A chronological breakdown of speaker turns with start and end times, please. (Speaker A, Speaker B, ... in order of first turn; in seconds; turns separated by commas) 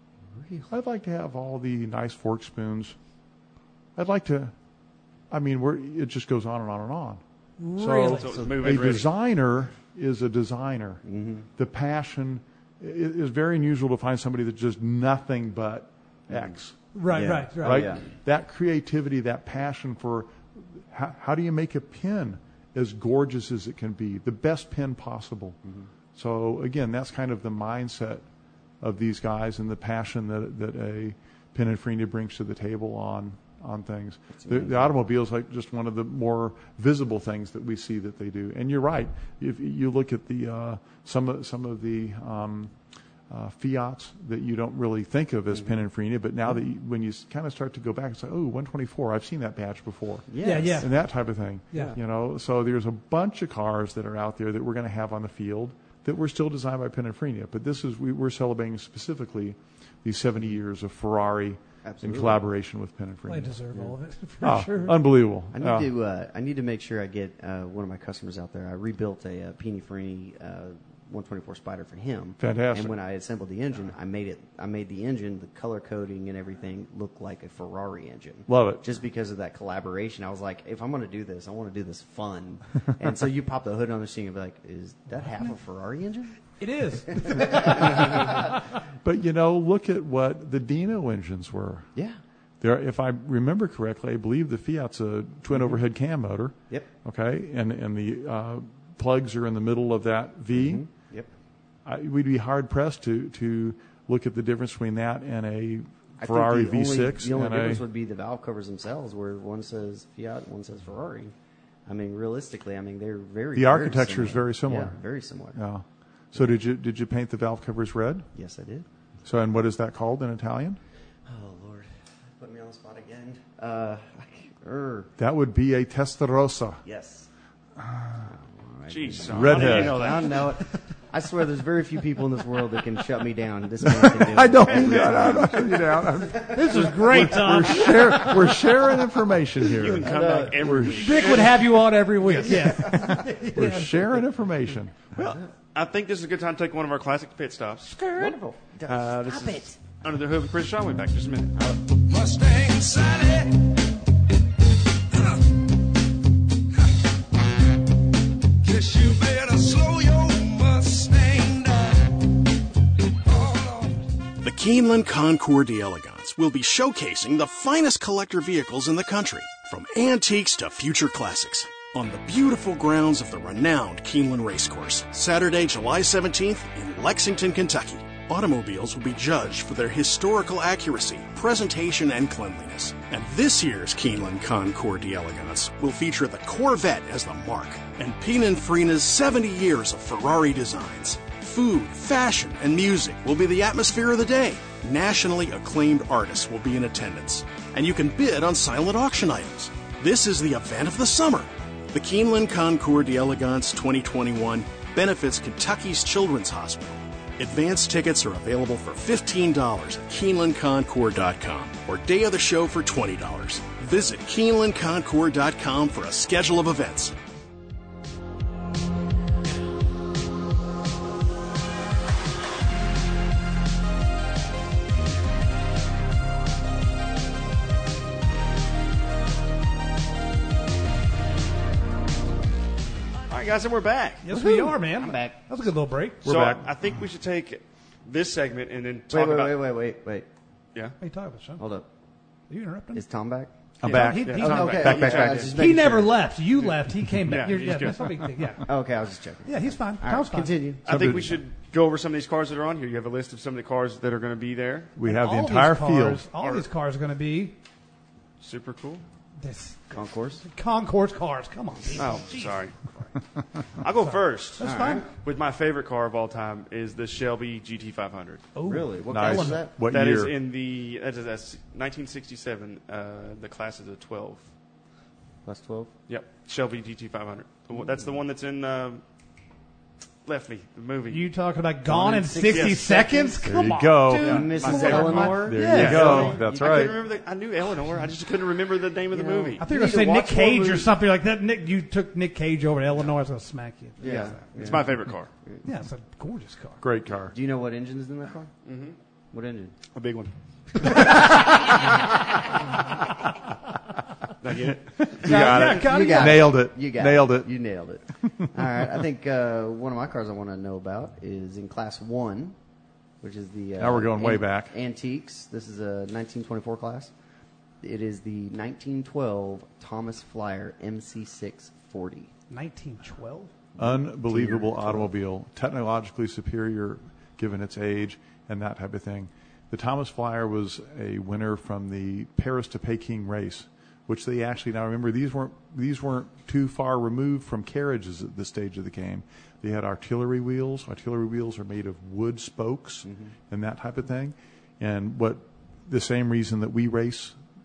Speaker A: 0.3-0.7, Speaker B: 0.7-3.0, Speaker B: 4.0-4.5, Speaker B: 5.3-7.2, Speaker C: 7.6-8.3, Speaker B: 7.8-11.0, Speaker D: 8.1-9.1, Speaker A: 8.3-8.8, Speaker A: 11.0-11.5, Speaker B: 11.6-25.6, Speaker A: 16.3-16.5, Speaker C: 16.9-18.0, Speaker A: 17.1-18.1, Speaker A: 25.6-25.9, Speaker B: 26.1-28.2, Speaker B: 28.8-42.7, Speaker A: 34.4-34.9, Speaker B: 43.3-63.5, Speaker A: 50.3-50.8, Speaker C: 50.4-50.9, Speaker A: 61.8-62.4, Speaker C: 63.3-65.0, Speaker B: 64.4-65.9, Speaker A: 65.5-86.4, Speaker B: 72.4-73.0, Speaker B: 78.5-78.8, Speaker C: 86.6-88.4, Speaker A: 87.2-88.5, Speaker B: 87.9-88.4, Speaker B: 89.0-91.9, Speaker B: 92.6-100.8, Speaker A: 100.5-101.3, Speaker B: 101.8-107.8, Speaker A: 106.2-111.3, Speaker A: 111.8-115.6, Speaker B: 113.5-115.0, Speaker B: 115.5-118.2, Speaker A: 118.3-118.8, Speaker B: 119.2-120.8, Speaker A: 121.2-121.9, Speaker A: 122.4-125.1, Speaker B: 125.2-126.8, Speaker A: 126.8-127.3, Speaker B: 127.8-128.2, Speaker A: 128.2-136.8, Speaker D: 128.9-130.5, Speaker B: 129.2-130.0, Speaker B: 133.8-141.2, Speaker C: 136.5-138.4, Speaker D: 139.7-142.8, Speaker A: 140.0-141.5, Speaker C: 140.9-144.1, Speaker B: 142.7-145.4, Speaker D: 145.7-148.0, Speaker C: 147.9-148.3, Speaker A: 148.0-149.6, Speaker D: 148.9-151.6, Speaker C: 149.3-149.7, Speaker E: 152.1-153.7, Speaker E: 158.6-162.2, Speaker E: 163.2-164.0, Speaker F: 164.4-217.1, Speaker D: 233.3-234.2, Speaker C: 234.2-236.2, Speaker A: 234.3-235.3, Speaker B: 236.2-236.7, Speaker D: 236.2-239.7, Speaker A: 239.1-240.3, Speaker C: 241.0-241.6, Speaker A: 241.6-241.8, Speaker C: 242.5-243.0, Speaker A: 242.9-243.5, Speaker B: 243.8-245.5, Speaker D: 243.8-245.5, Speaker C: 243.9-248.7, Speaker A: 244.4-246.2, Speaker D: 247.3-248.1, Speaker A: 248.7-251.1, Speaker C: 249.4-250.5, Speaker B: 250.8-251.4, Speaker D: 250.9-254.9, Speaker B: 254.9-256.2, Speaker C: 255.0-257.6, Speaker D: 256.4-256.6, Speaker D: 258.4-259.0, Speaker C: 259.4-262.6, Speaker A: 259.9-260.4, Speaker D: 261.9-262.8, Speaker D: 263.8-268.5, Speaker C: 264.0-265.1, Speaker A: 264.6-265.1, Speaker C: 268.5-269.6, Speaker A: 268.6-269.7, Speaker B: 269.1-270.3, Speaker D: 269.8-274.5, Speaker A: 275.4-275.9, Speaker D: 276.1-279.0, Speaker D: 280.2-281.3, Speaker C: 281.1-286.3, Speaker A: 281.9-283.4, Speaker D: 282.5-282.9, Speaker B: 283.4-287.0, Speaker D: 284.2-289.6, Speaker A: 284.2-286.9, Speaker A: 289.1-290.9, Speaker C: 289.6-294.4, Speaker A: 294.0-294.9, Speaker D: 294.0-295.3, Speaker C: 295.6-296.8, Speaker B: 296.8-297.3, Speaker A: 297.3-298.5, Speaker D: 298.6-298.9, Speaker A: 299.3-299.7, Speaker D: 299.9-301.4, Speaker D: 304.4-305.6, Speaker B: 305.0-307.5, Speaker C: 305.2-306.5, Speaker A: 305.3-312.5, Speaker A: 313.2-317.1, Speaker B: 313.8-314.7, Speaker A: 317.8-322.3, Speaker C: 322.5-323.5, Speaker A: 323.8-325.1, Speaker B: 323.8-347.4